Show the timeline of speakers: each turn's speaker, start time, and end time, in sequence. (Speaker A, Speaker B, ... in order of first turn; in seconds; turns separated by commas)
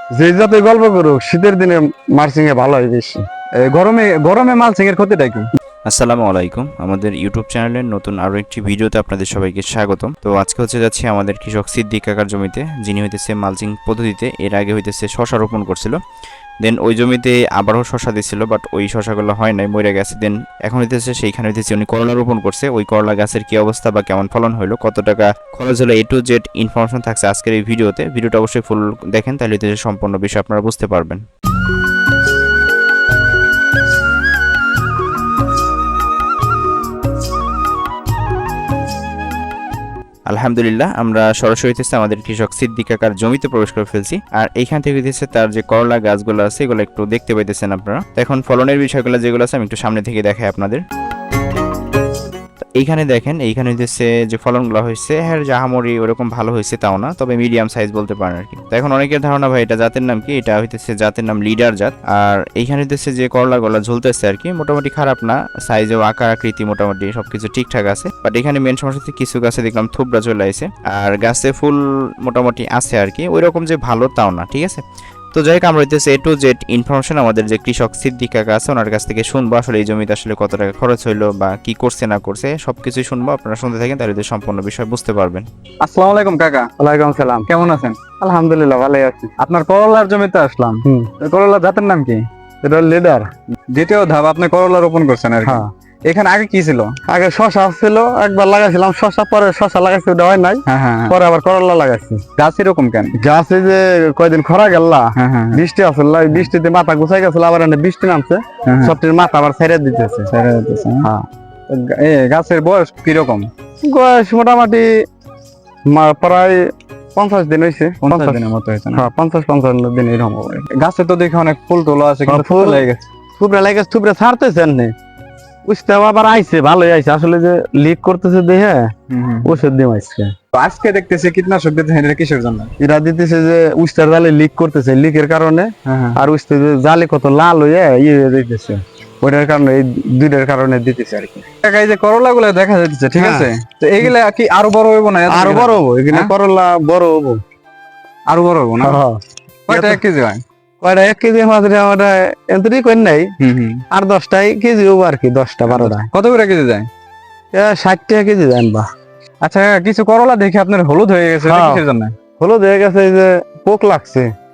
Speaker A: 0.1-3.2, Speaker B: 3.6-5.5, Speaker C: 5.9-16.0, Speaker C: 16.6-31.2, Speaker C: 40.3-50.8, Speaker C: 52.8-74.8, Speaker C: 75.3-85.5, Speaker B: 85.8-86.7, Speaker A: 86.8-87.5, Speaker B: 87.5-88.0, Speaker A: 88.2-89.3, Speaker B: 89.4-92.2, Speaker A: 90.8-91.1, Speaker A: 92.6-93.3, Speaker B: 93.7-97.0, Speaker A: 97.1-102.2, Speaker B: 100.7-101.2, Speaker B: 102.4-103.2, Speaker A: 103.2-110.3, Speaker B: 105.2-105.6, Speaker B: 108.7-109.0, Speaker B: 110.3-111.1, Speaker B: 111.7-113.5, Speaker A: 113.8-114.9, Speaker A: 115.9-118.4, Speaker B: 118.0-119.1, Speaker A: 118.9-120.7, Speaker B: 120.7-123.0, Speaker A: 122.3-122.9, Speaker A: 123.4-124.9, Speaker A: 125.7-128.9, Speaker B: 129.1-129.6, Speaker A: 129.4-130.3, Speaker B: 130.5-132.7, Speaker A: 132.8-141.5, Speaker B: 135.9-136.2, Speaker B: 141.6-146.3, Speaker A: 143.2-143.5, Speaker A: 145.3-147.4, Speaker B: 148.3-149.0, Speaker A: 148.8-149.2, Speaker B: 149.7-150.4, Speaker A: 149.7-150.0, Speaker A: 150.8-153.3, Speaker B: 153.4-153.8, Speaker A: 153.9-156.1, Speaker B: 155.7-156.9, Speaker A: 157.5-158.9, Speaker B: 159.4-162.1, Speaker A: 161.4-161.8, Speaker A: 162.4-164.3